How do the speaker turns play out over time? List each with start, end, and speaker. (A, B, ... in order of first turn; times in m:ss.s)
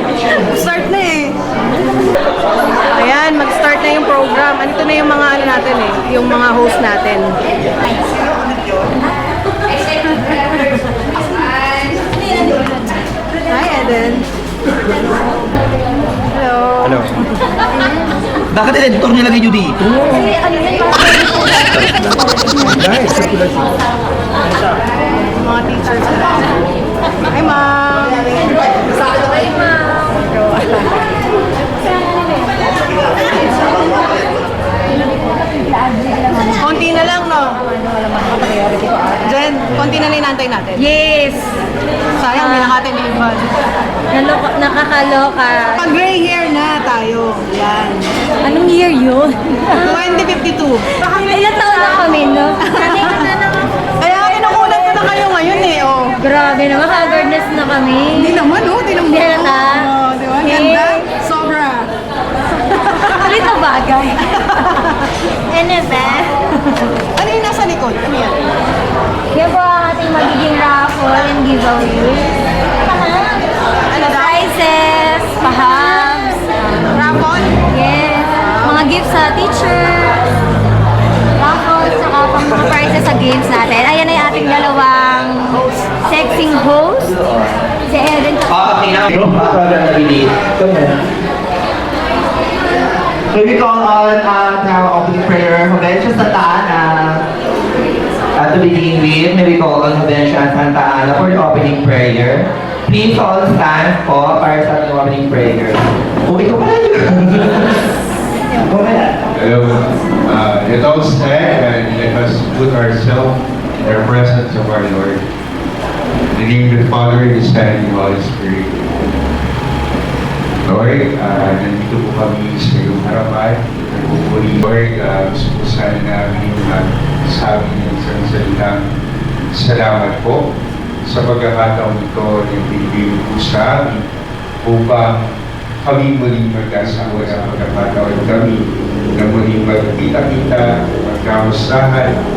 0:00.4-0:01.4 A
0:02.8-0:07.4 A
0:07.8-0:09.0 B
0:13.5-0:14.2 A
0:16.3-0:16.9 A
0:16.8-0:17.1 C
0:18.5-0:20.3 C
0:21.7-0:22.1 C
0:22.6-0:23.4 C
0:25.4-0:26.6 A
0:27.3-0:28.5 A
0:28.9-0:29.3 B
0:32.8-0:34.4 B
0:36.6-0:40.8 A
0:40.8-0:41.6 D
0:42.2-0:43.6 A
0:42.3-0:42.8 D
0:44.1-0:45.8 D
0:45.8-0:48.2 A
0:48.4-0:50.1 D
0:49.7-0:52.1 A
0:51.1-0:53.7 D
0:52.6-0:53.3 A
0:54.0-0:56.2 A
0:56.2-0:58.4 D
0:58.1-1:01.9 A
0:59.0-1:01.2 D
1:03.0-1:04.4 D
1:05.5-1:06.4 D
1:07.2-1:08.4 A
1:09.3-1:12.3 D
1:12.8-1:16.8 D
1:13.9-1:14.4 A
1:16.9-1:17.6 A
1:17.6-1:20.2 D
1:18.5-1:18.8 A
1:21.4-1:27.1 D
1:27.1-1:27.6 C
1:27.9-1:28.5 D
1:28.5-1:31.0 C
1:29.1-1:29.5 B
1:33.3-1:37.2 B
1:38.4-1:47.8 C
1:48.6-1:49.2 C
1:49.3-1:55.2 E
1:56.3-1:58.8 E
2:00.6-2:08.9 E
2:09.5-2:10.5 E
2:11.0-2:14.0 E
2:14.6-2:22.2 E